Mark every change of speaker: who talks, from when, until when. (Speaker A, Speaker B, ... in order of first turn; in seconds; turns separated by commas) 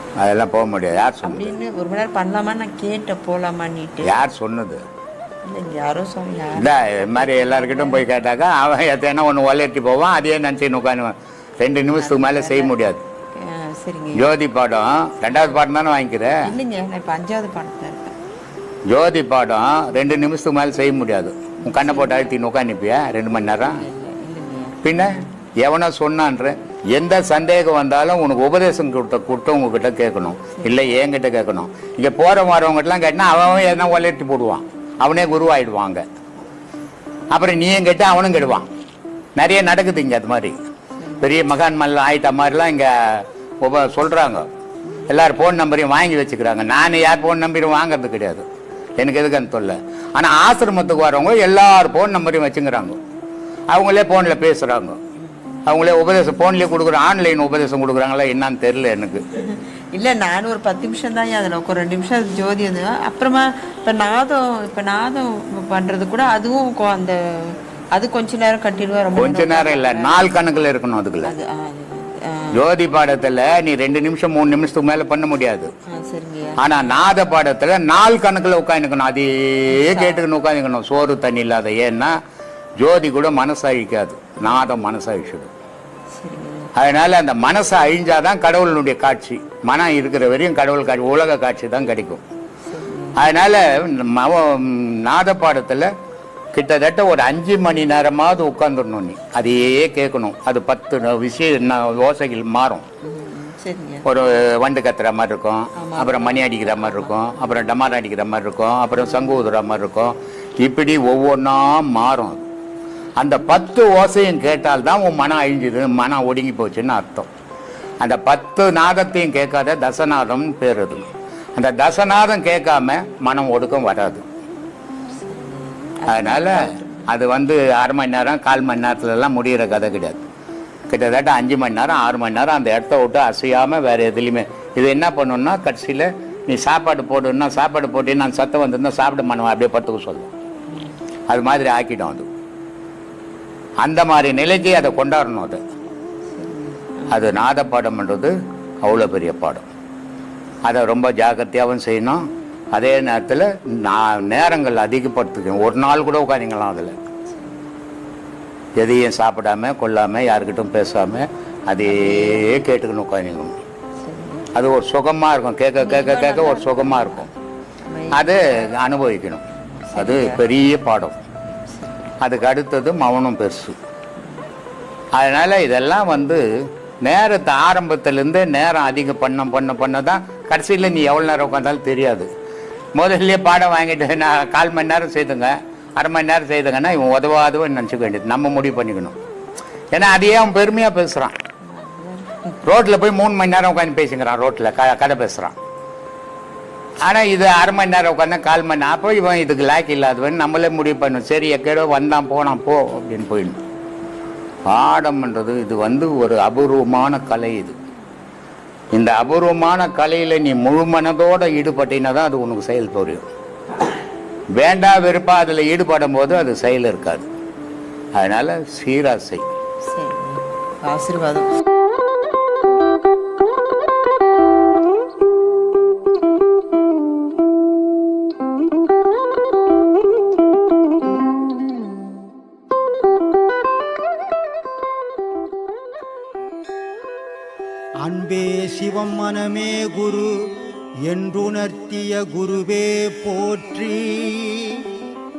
Speaker A: 0.2-1.5, Speaker B: 1.2-4.2, Speaker A: 4.0-4.8, Speaker B: 5.5-8.1, Speaker A: 6.6-13.0, Speaker B: 12.0-12.7, Speaker B: 13.3-14.3, Speaker A: 14.2-16.4, Speaker B: 15.3-15.6, Speaker B: 16.4-18.1, Speaker A: 18.9-23.8, Speaker B: 21.6-22.4, Speaker B: 23.6-25.3, Speaker A: 24.8-36.0, Speaker B: 30.6-31.0, Speaker A: 37.3-38.7, Speaker A: 39.4-40.6, Speaker B: 41.0-41.3, Speaker A: 41.2-44.5, Speaker A: 45.1-48.5, Speaker A: 49.0-53.0, Speaker A: 53.7-55.0, Speaker A: 55.7-59.2, Speaker B: 59.4-70.3, Speaker A: 69.2-71.3, Speaker B: 71.2-72.6, Speaker A: 72.5-75.7, Speaker B: 75.9-77.0, Speaker A: 76.6-82.2, Speaker B: 79.7-80.2, Speaker A: 82.8-85.5, Speaker B: 86.2-86.7, Speaker A: 86.8-92.2, Speaker B: 92.7-93.3, Speaker A: 93.2-95.9, Speaker A: 96.5-102.8, Speaker B: 103.0-104.1, Speaker A: 104.1-112.5, Speaker B: 105.8-107.7, Speaker B: 109.1-109.3, Speaker A: 113.2-117.3, Speaker A: 118.0-124.2, Speaker B: 125.2-127.1, Speaker A: 126.1-130.2, Speaker A: 130.9-140.3, Speaker A: 141.3-142.3, Speaker A: 143.8-145.6, Speaker B: 146.3-147.4, Speaker A: 147.1-149.7, Speaker A: 150.7-157.0, Speaker A: 158.8-163.6, Speaker B: 161.8-162.6, Speaker B: 164.0-164.4, Speaker A: 164.5-167.3, Speaker B: 165.8-167.3, Speaker B: 167.8-168.6, Speaker A: 168.2-169.4, Speaker B: 169.9-170.4, Speaker A: 170.0-171.2, Speaker B: 171.7-172.0, Speaker A: 172.2-173.8, Speaker A: 175.1-182.3, Speaker A: 182.9-189.2, Speaker A: 189.9-191.3, Speaker B: 191.6-192.7, Speaker A: 192.7-195.6, Speaker A: 197.0-203.6, Speaker A: 204.7-207.8, Speaker A: 208.9-213.2, Speaker A: 214.6-217.3, Speaker A: 218.2-219.4, Speaker B: 219.9-221.5, Speaker C: 238.0-244.9